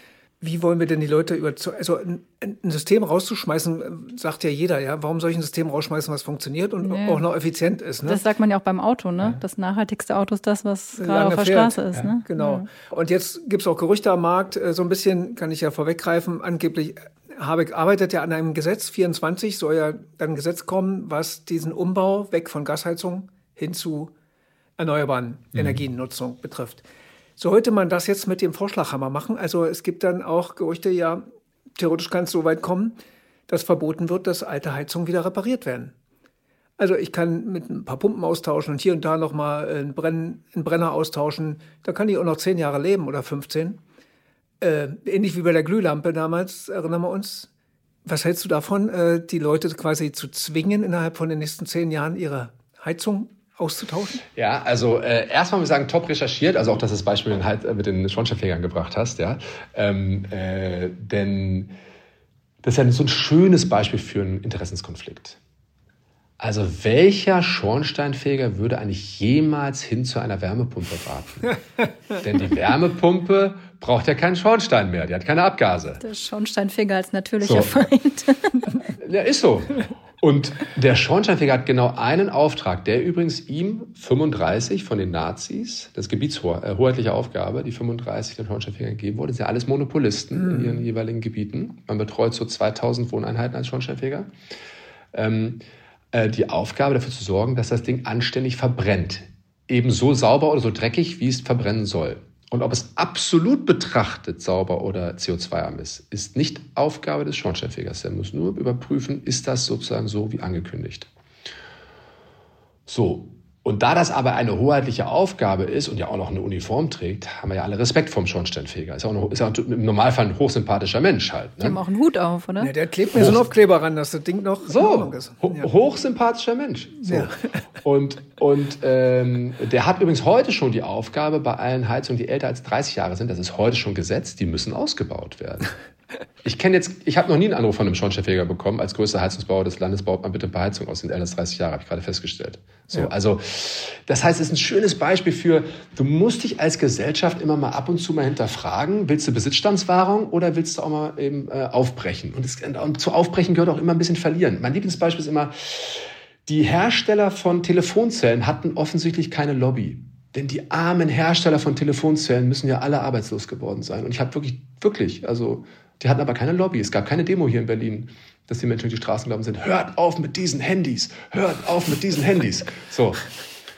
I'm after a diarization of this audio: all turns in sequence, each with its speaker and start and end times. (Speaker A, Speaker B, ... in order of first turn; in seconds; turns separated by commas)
Speaker A: 0.4-8.2, Speaker B: 6.8-7.2, Speaker B: 8.1-12.7, Speaker A: 10.9-24.1, Speaker A: 24.8-26.8, Speaker C: 25.5-25.8, Speaker A: 27.4-33.0, Speaker A: 33.5-35.9, Speaker A: 36.8-43.8, Speaker A: 44.6-47.5, Speaker A: 48.0-54.2, Speaker C: 54.3-61.7, Speaker C: 62.6-65.4, Speaker C: 66.4-71.5, Speaker C: 72.2-76.0, Speaker B: 76.0-78.8, Speaker C: 77.4-77.8, Speaker C: 79.0-94.3, Speaker C: 95.1-111.1, Speaker C: 112.9-121.8, Speaker B: 121.6-122.7, Speaker A: 122.6-125.7, Speaker C: 123.1-123.5, Speaker C: 124.7-127.3, Speaker A: 127.0-127.6, Speaker C: 127.8-135.7, Speaker C: 136.4-173.2